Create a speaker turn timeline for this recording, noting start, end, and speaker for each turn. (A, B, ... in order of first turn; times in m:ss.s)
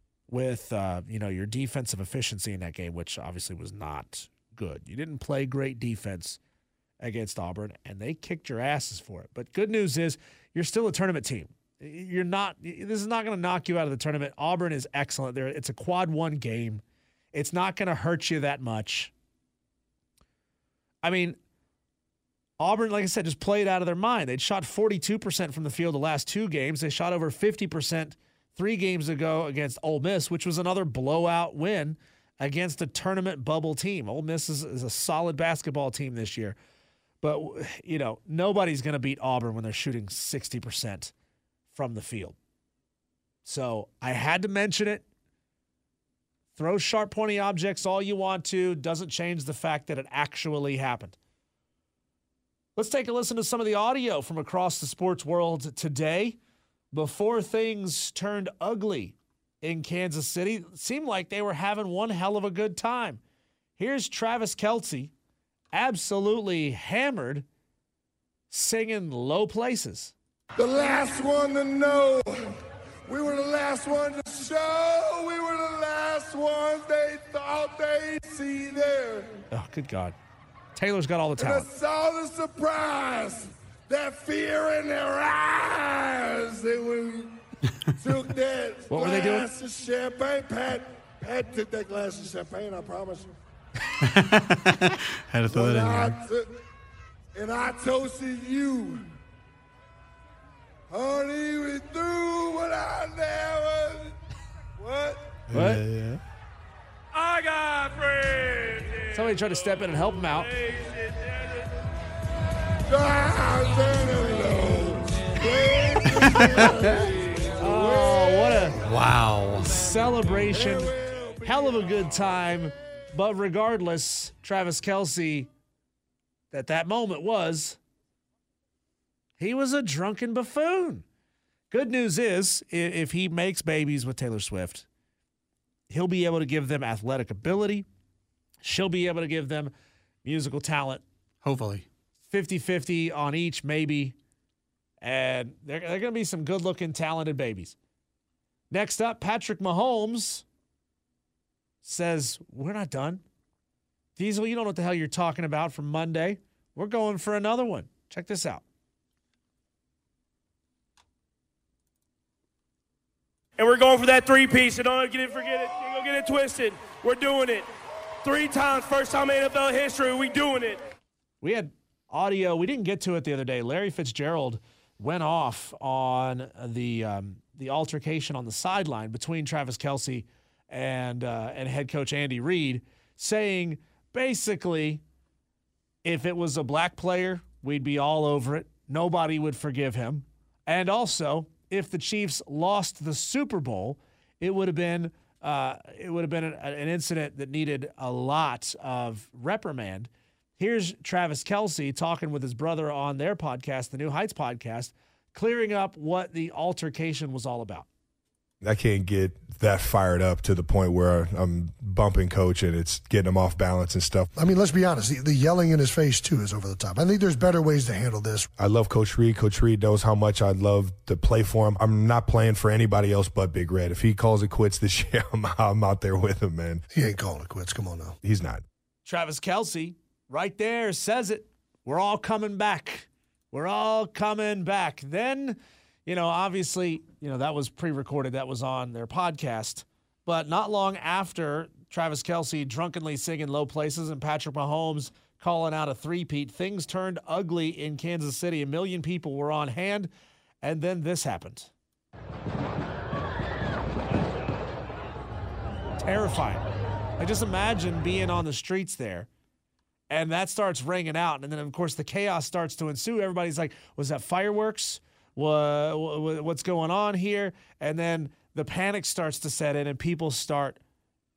0:00.3-0:06.4 A
0:07.0-0:16.8 A
0:17.3-0:19.1 A
0:21.0-0:21.4 A
0:22.6-0:36.6 A
0:37.2-0:41.1 A
0:41.7-0:42.4 A
0:43.4-0:45.1 A
0:46.6-0:51.2 A
0:52.8-0:56.4 A
0:56.9-1:03.2 A
1:03.8-1:05.1 A
1:05.7-1:07.5 A
1:08.5-1:10.1 A
1:10.6-1:12.5 B
1:13.1-1:19.4 B
1:19.5-1:20.2 A
1:20.8-1:21.7 A
1:21.4-1:27.4 B
1:28.0-1:33.3 B
1:28.9-1:29.5 A
1:34.1-1:36.2 C
1:35.5-1:36.6 B
1:37.3-1:39.1 B
1:40.9-1:44.2 B
1:44.8-1:45.3 B
1:45.5-1:46.2 D
1:45.5-1:45.8 A
1:47.1-1:49.2 E
1:49.1-1:50.5 A
1:50.4-1:51.7 E
1:52.9-1:58.8 B
1:57.6-1:58.8 A
1:58.8-1:59.7 C
1:59.6-2:05.5 A
2:00.5-2:02.6 B
2:06.5-2:07.8 A
2:09.4-2:11.0 A
2:11.7-2:14.9 A
2:15.9-2:17.9 A
2:18.6-2:19.7 A
2:20.2-2:21.0 A
2:21.4-2:21.9 C
2:22.3-2:24.2 A
2:25.0-2:27.8 A
2:28.7-2:30.4 A
2:31.8-2:33.2 A
2:34.2-2:38.6 A
2:43.6-2:47.7 E
2:48.2-2:50.8 E
2:51.4-3:05.0 A
3:06.0-3:27.9 A
3:28.6-3:34.3 D
3:34.4-3:38.5 F
3:38.6-3:46.8 D
3:46.9-3:48.2 F
3:48.2-3:48.6 D
3:49.0-4:10.1 A
4:10.6-4:11.7 A
4:16.0-4:16.7 A
4:17.2-4:19.3 A
4:20.1-4:30.8 A